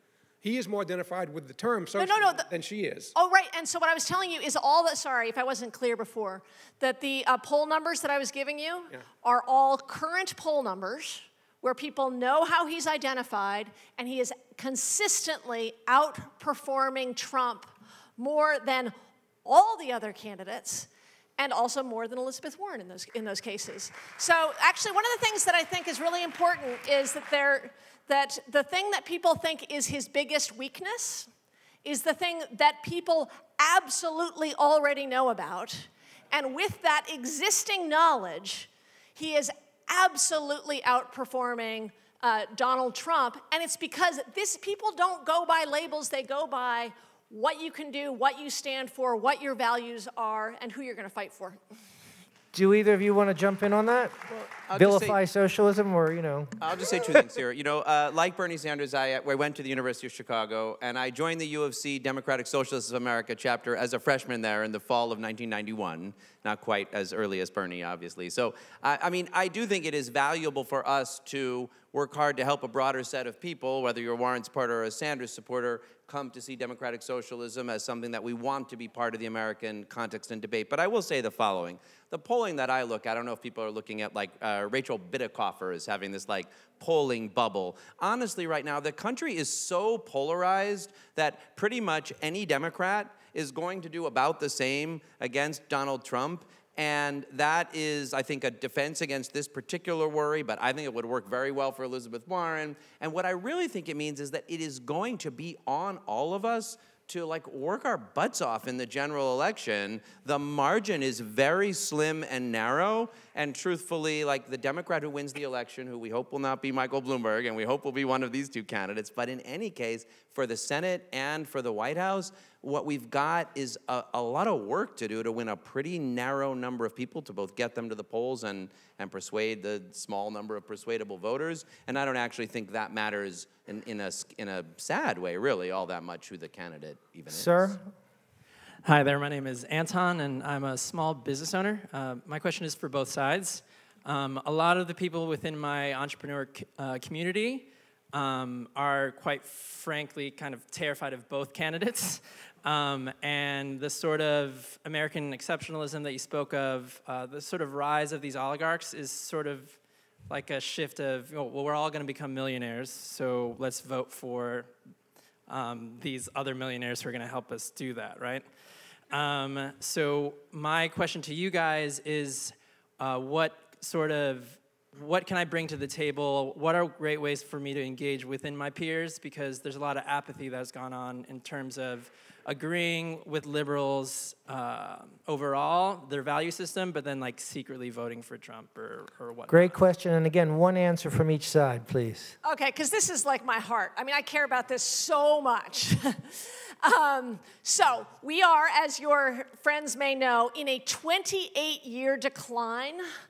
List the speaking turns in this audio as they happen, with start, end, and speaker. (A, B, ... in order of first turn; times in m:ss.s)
0:00.4-0:03.1 A
0:01.9-0:02.5 B
0:03.1-0:31.3 B
0:31.8-0:51.6 B
0:52.5-0:54.2 C
0:54.3-0:55.2 D
0:54.7-0:56.5 C
0:56.6-2:17.8 D
2:17.3-2:17.8 C
2:18.8-2:44.7 E
2:45.5-2:48.5 E
2:49.1-3:09.8 E
3:09.5-3:12.3 C
3:12.4-3:23.0 B